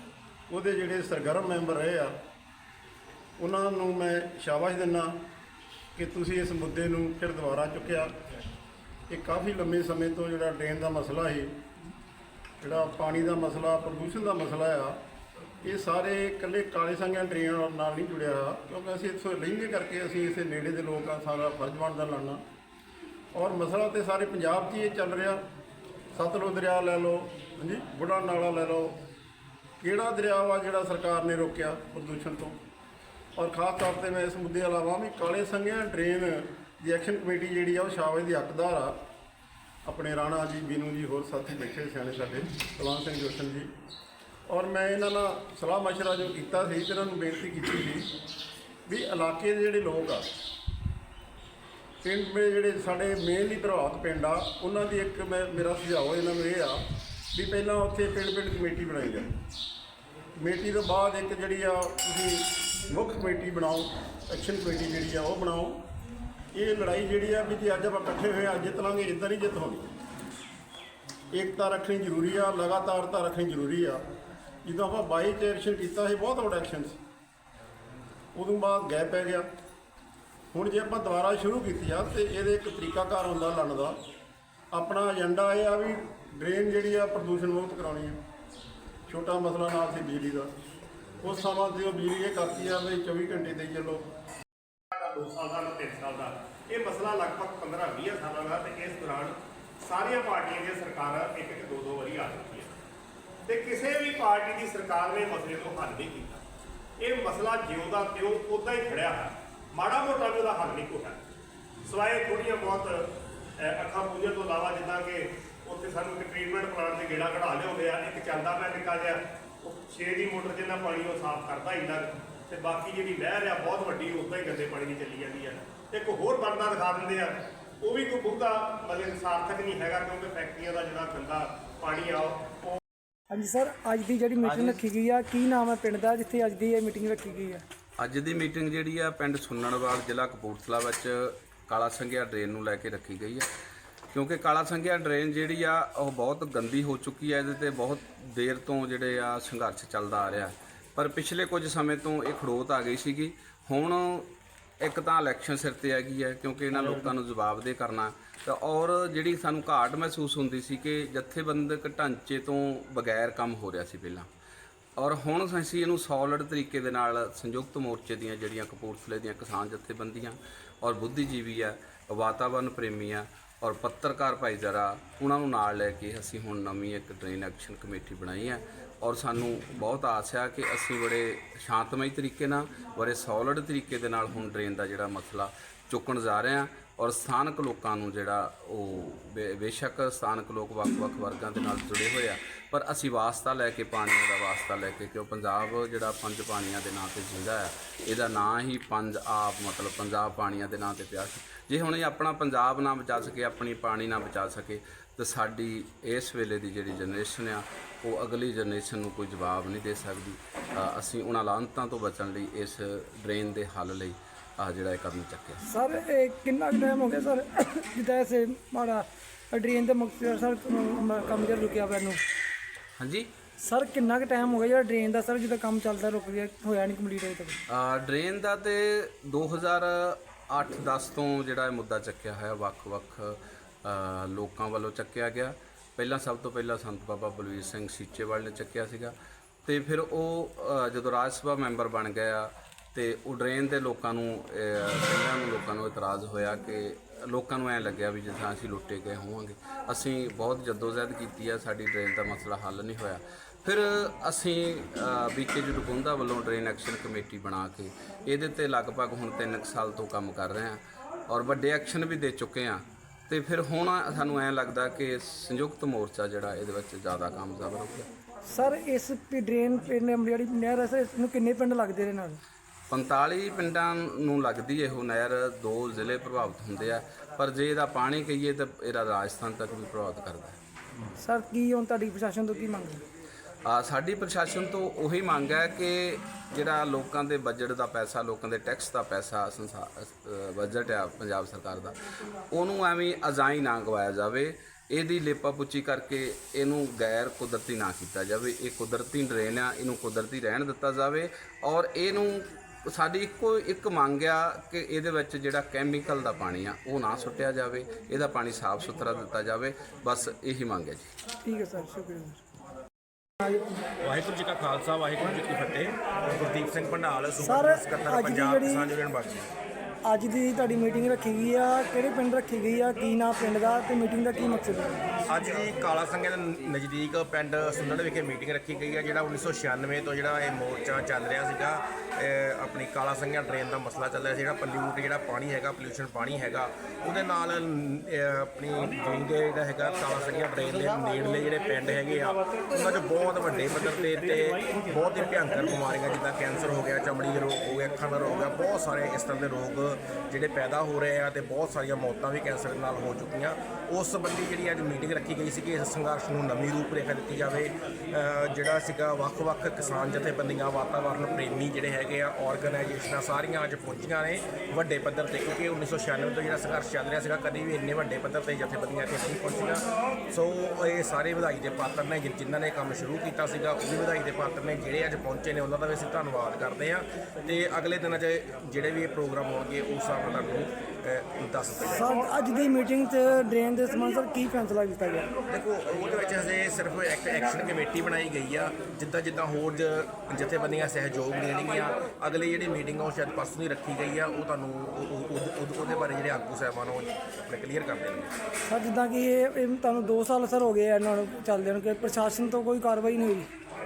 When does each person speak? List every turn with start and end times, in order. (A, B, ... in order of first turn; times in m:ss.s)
0:00.5-0:02.1 A
0:03.4-0:05.1 A
0:05.9-0:08.1 A
0:09.1-0:11.5 A
0:12.6-0:15.0 A
0:15.6-0:22.4 A
0:23.3-0:25.4 A
0:26.1-0:28.9 A
0:29.8-0:32.6 A
0:33.4-0:39.0 A
0:39.8-0:43.7 A
0:44.5-0:48.1 A
0:48.9-0:50.2 A
0:52.0-0:56.8 A
0:57.3-0:59.3 A
1:00.4-1:05.8 A
1:06.5-1:09.9 A
1:11.3-1:14.0 A
1:14.6-1:17.0 A
1:18.3-1:19.5 A
1:20.5-1:24.0 A
1:24.7-1:28.2 A
1:29.1-1:30.5 A
1:31.2-1:34.0 A
1:35.0-1:42.7 B
1:43.5-1:46.4 B
1:47.0-1:51.2 B
1:51.9-1:53.0 B
1:53.6-2:07.3 B
2:07.8-2:12.4 B
2:13.3-2:17.6 C
2:18.0-2:23.5 D
2:24.1-2:34.3 D
2:34.8-2:44.3 D
2:45.0-3:35.6 D
3:35.7-3:42.2 C
3:43.0-3:43.3 D
3:43.6-3:47.6 C
3:47.7-3:59.1 D
3:59.6-4:28.1 D
4:28.5-4:32.4 C
4:32.9-4:40.6 D
4:41.2-4:43.0 C
4:43.6-5:11.1 D
5:11.4-5:12.4 C
5:13.4-5:13.8 C
5:14.0-5:19.5 E
5:17.4-5:18.9 C
5:20.0-5:25.2 C
5:25.3-6:22.0 E
6:21.8-6:25.3 C
6:25.5-6:38.3 E
6:38.7-6:43.5 C